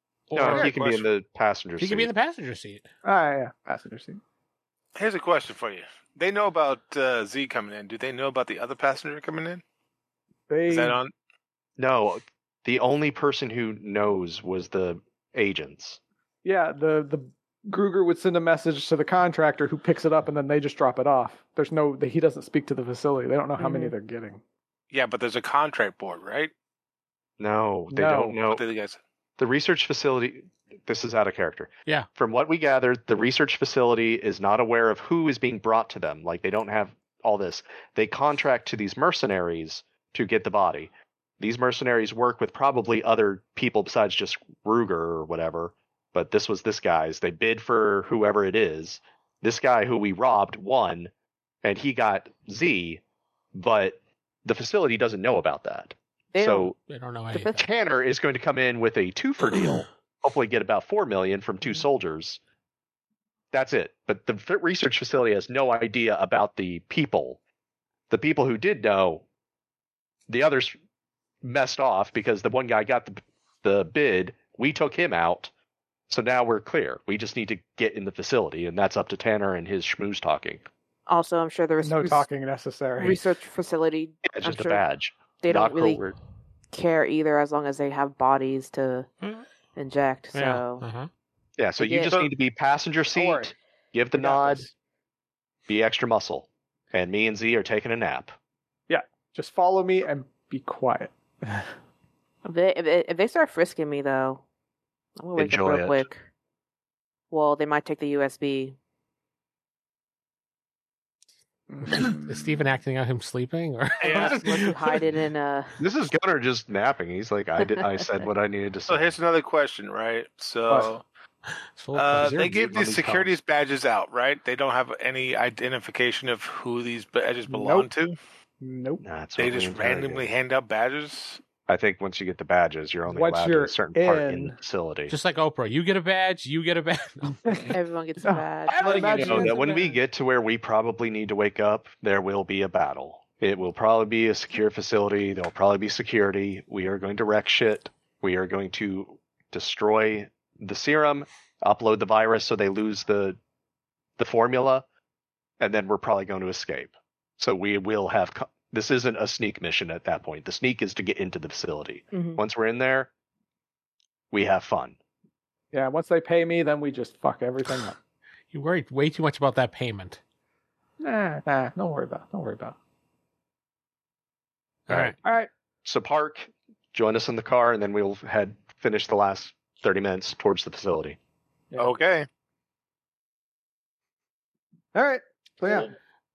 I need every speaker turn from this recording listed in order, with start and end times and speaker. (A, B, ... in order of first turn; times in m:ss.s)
0:00.3-0:00.8 A
0:00.4-0:02.1 B
0:00.4-0:01.0 C
0:01.8-0:02.9 A
0:03.0-0:04.2 D
0:05.0-0:09.6 C
0:10.5-0:11.0 D
0:10.7-0:11.1 C
0:11.8-0:16.0 B
0:16.4-0:24.4 D
0:23.6-0:24.0 E
0:24.9-0:26.5 C
0:27.4-0:28.6 B
0:27.9-0:28.4 D
0:28.5-0:29.0 C
0:29.4-0:51.1 B
0:51.6-0:53.0 B
0:53.5-0:56.8 B
0:56.3-0:56.8 E
0:56.8-0:57.6 A
0:57.3-0:57.6 E
0:57.6-1:02.4 B
1:03.5-1:07.4 B
1:08.1-1:09.2 B
1:10.3-1:10.8 B
1:11.4-1:15.5 B
1:16.1-1:20.6 B
1:21.1-1:22.3 E
1:21.8-1:23.2 D
1:23.0-1:24.8 E
1:24.3-1:26.2 B
1:25.4-1:26.0 E
1:26.7-1:29.1 E
1:29.8-1:30.8 E
1:30.3-1:31.1 A
1:31.6-1:34.7 B
1:31.8-1:32.2 E
1:33.2-1:33.5 D
1:34.2-1:34.7 D
1:35.7-1:38.3 B
1:38.9-1:41.7 D
1:42.4-1:44.4 E
1:45.2-1:46.2 E
1:45.4-1:46.1 B
1:47.3-1:48.8 E
1:51.7-1:52.6 D
1:51.8-1:55.0 A
1:54.0-1:54.4 C
1:54.0-1:55.8 E
1:55.8-1:59.2 B
1:58.9-2:01.0 C
2:00.7-2:00.9 D
2:01.8-2:03.4 A
2:01.9-2:08.2 C
2:07.5-2:07.9 D
2:08.6-2:09.0 D
2:09.0-2:10.3 B
2:09.4-2:11.4 C
2:11.7-2:15.1 B
2:13.1-2:14.6 D
2:15.1-2:17.5 A
2:17.7-2:19.8 E
2:18.2-2:19.9 D
2:18.8-2:33.4 B
2:34.2-2:34.8 B
2:35.6-2:43.1 B
2:42.1-2:42.4 E
2:44.3-2:45.0 B
2:45.7-2:48.0 D
2:48.5-2:50.2 A
2:51.0-2:52.8 D
2:54.9-2:55.2 A
2:54.9-2:55.2 B
2:55.2-2:55.5 D
2:55.8-3:01.2 B
3:01.8-3:02.3 C
3:04.9-3:05.9 D